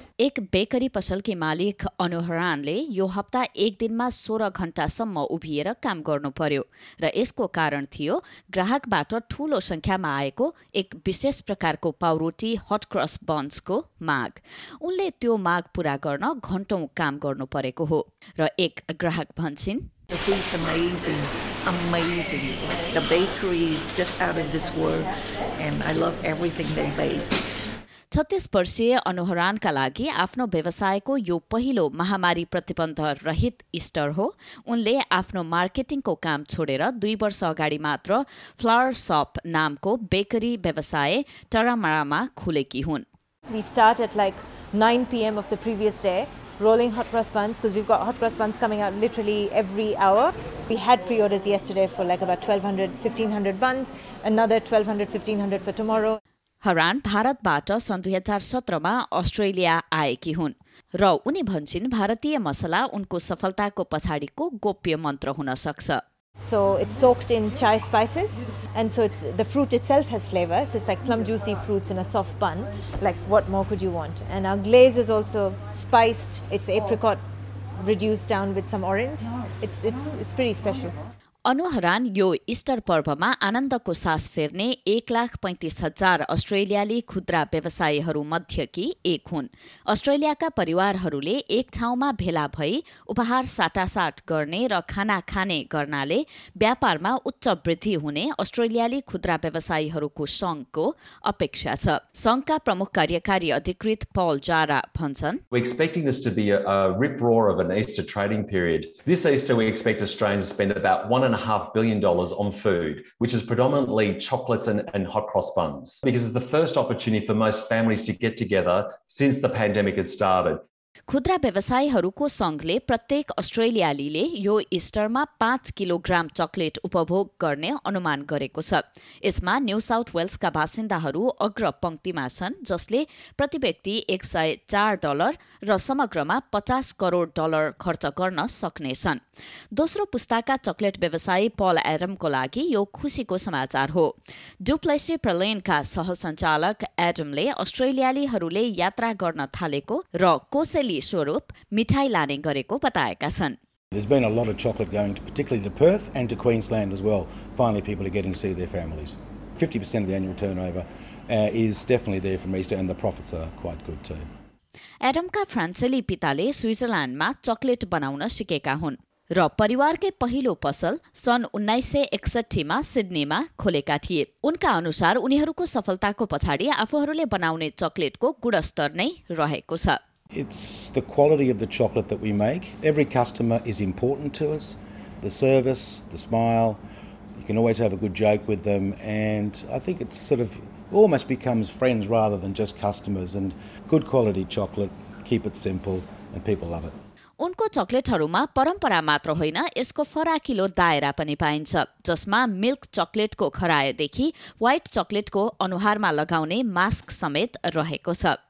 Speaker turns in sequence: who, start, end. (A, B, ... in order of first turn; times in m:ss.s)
0:00.2-0:19.9 A
0:20.1-0:25.0 B
0:25.6-0:27.2 B
0:28.1-0:43.1 A
0:43.5-0:56.2 C
0:56.6-1:06.0 A
1:06.4-1:17.2 C
1:17.8-1:20.9 C
1:21.5-1:45.4 A
1:45.5-2:00.6 D
2:01.1-2:19.2 A
2:19.7-2:33.6 A
2:33.9-2:44.2 E
2:45.0-3:00.0 A
3:00.3-3:06.8 E
3:07.4-3:17.0 E
3:17.4-3:28.4 A